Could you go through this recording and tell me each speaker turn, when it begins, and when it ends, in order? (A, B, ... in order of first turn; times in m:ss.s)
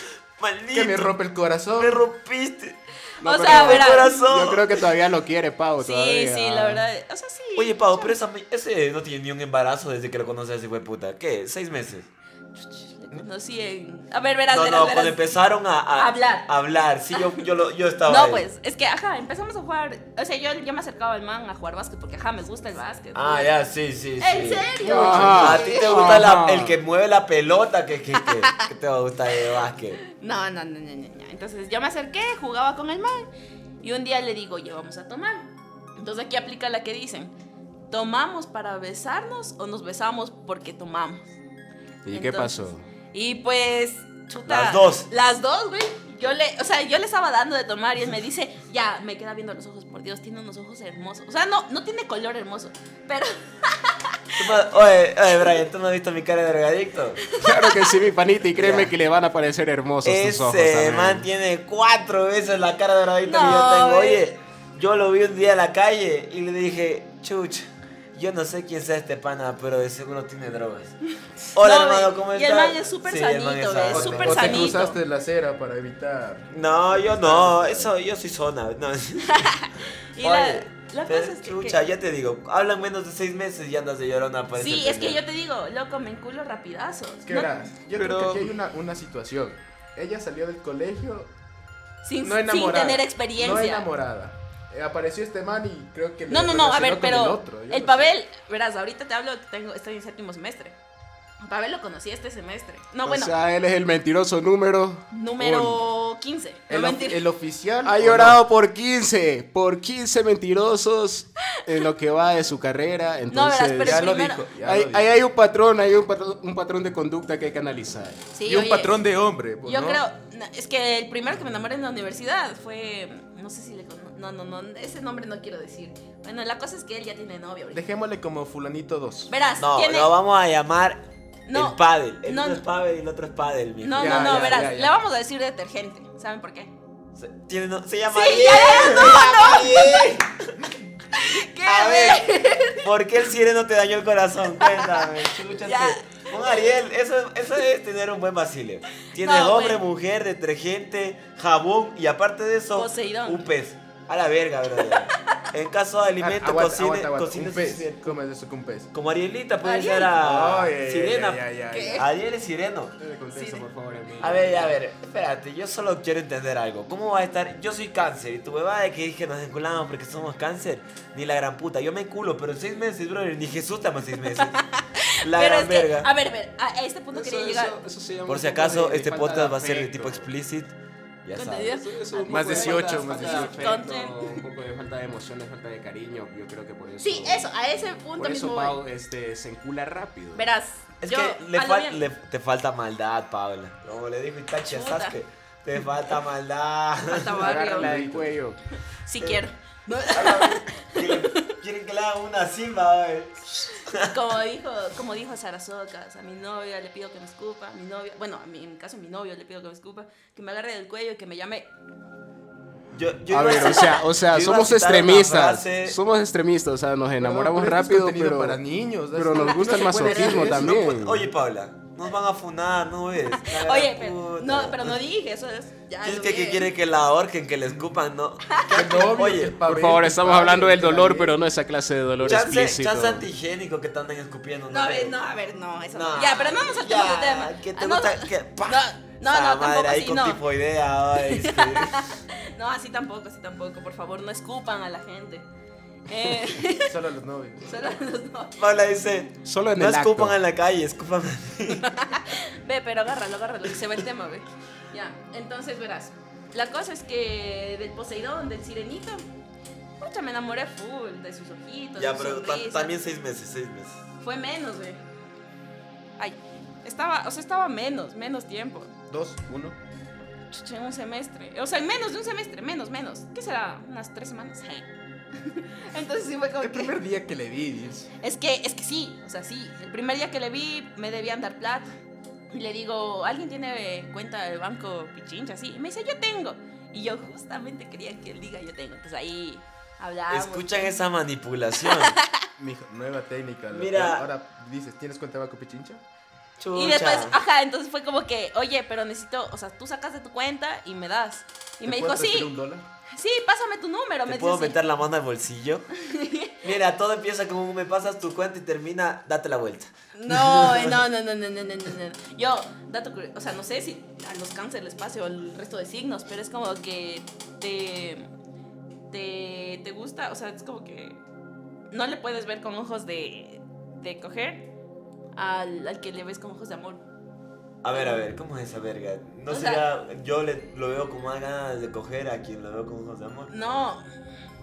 0:00.4-0:01.2 A
0:00.7-0:02.0 B
0:01.7-0:02.8 A
0:03.2-0:06.8 C
0:03.2-0:04.2 D
0:03.3-0:04.8 A
0:05.8-0:08.2 D
0:07.6-0:12.1 A
0:12.6-0:15.4 D
0:14.5-0:18.5 A
0:15.9-0:16.5 D
0:18.1-0:23.5 D
0:23.2-0:30.0 A
0:24.2-0:26.2 D
0:24.8-0:26.8 C
0:28.2-0:28.6 D
0:30.1-0:33.3 D
0:33.8-0:37.3 D
0:37.9-0:41.3 D
0:42.1-0:42.8 C
0:42.1-0:54.4 D
0:44.5-0:45.1 A
0:54.4-0:57.2 A
0:57.3-0:57.9 D
0:57.4-1:01.3 C
0:58.6-0:58.9 A
1:00.0-1:11.0 A
1:03.2-1:04.2 D
1:11.5-1:14.8 A
1:11.6-1:15.0 D
1:13.9-1:17.9 B
1:16.5-1:19.6 A
1:19.3-1:21.8 D
1:20.2-1:25.2 A
1:24.6-1:27.5 D
1:27.3-1:31.3 B
1:27.9-1:28.5 C
1:32.0-1:33.9 D
1:32.2-1:38.1 B
1:36.3-1:40.8 D
1:41.4-1:43.3 D
1:43.0-1:45.8 C
1:45.1-1:47.2 D
1:46.7-1:48.4 B
1:47.8-1:58.2 C
1:53.3-1:54.5 D
1:53.8-1:55.2 B
1:58.3-1:59.0 D
1:58.5-2:00.0 B
1:59.6-2:07.8 D
2:07.7-2:09.3 B
2:09.3-2:10.1 D
2:09.6-2:14.7 A
2:11.5-2:12.6 D
2:13.8-2:16.7 D
2:14.0-2:14.9 B
2:17.2-2:20.3 A
2:18.1-2:20.2 D
2:21.1-2:22.9 D
2:21.6-2:38.2 A
2:24.6-2:25.1 D
2:25.6-2:26.7 D
2:29.2-2:29.8 D
2:32.8-2:33.5 D
2:34.8-2:35.4 D
2:36.2-2:38.9 B
2:38.9-2:42.9 A
2:39.6-2:40.2 D
2:40.2-2:42.1 B
2:41.7-2:42.1 D
2:43.0-2:44.8 C
2:43.3-2:43.6 D
2:44.2-2:54.6 A
2:54.2-2:57.8 D
2:55.2-2:56.1 A
2:57.1-3:00.3 C
2:58.3-3:01.8 A
3:01.3-3:04.4 D
3:01.7-3:07.5 C
3:02.3-3:03.7 B
3:07.0-3:08.8 D
3:08.2-3:10.5 C
3:10.4-3:12.1 D
3:11.0-3:17.4 A
3:14.7-3:15.2 D
3:17.1-3:17.9 D
3:17.4-3:18.6 C
3:17.5-3:18.4 B
3:19.0-3:21.5 D
3:20.1-3:24.1 A
3:24.1-3:31.7 D
3:32.9-3:36.0 A
3:33.3-3:38.6 C
3:33.6-3:33.9 D
3:37.2-3:40.8 B
3:39.1-3:41.3 C
3:40.0-3:45.0 A
3:43.4-3:46.7 D
3:46.0-3:49.6 A
3:48.5-3:48.8 D
3:48.7-3:51.4 B
3:49.7-3:53.2 C
3:52.2-3:55.2 A
3:54.7-4:00.4 D
3:55.9-4:02.1 A
4:01.2-4:05.4 D
4:06.1-4:06.9 D
4:06.8-4:07.7 B
4:07.7-4:08.6 D
4:08.6-4:11.9 A
4:09.4-4:10.4 C
4:11.7-4:19.2 D
4:20.0-4:22.9 D
4:22.0-4:24.0 A
4:24.2-4:25.0 D
4:26.2-4:28.9 D
4:29.1-4:29.8 B
4:30.5-4:37.0 D
4:36.6-4:38.1 B
4:38.2-4:41.9 D
4:42.5-4:51.0 D
4:50.3-4:52.2 A
4:52.0-4:52.4 D
4:52.6-4:56.0 B
4:53.7-4:54.3 A
4:56.6-4:57.4 A
4:56.7-5:02.5 D
5:01.8-5:02.8 B
5:03.1-5:04.8 D
5:04.3-5:05.9 A
5:06.0-5:06.6 D
5:06.6-5:11.0 A
5:10.2-5:18.3 D
5:19.1-5:21.2 D
5:21.9-5:24.7 D
5:25.4-5:27.0 D
5:27.8-5:33.5 A
5:27.9-5:28.2 D
5:29.5-5:29.8 D
5:33.5-5:34.0 D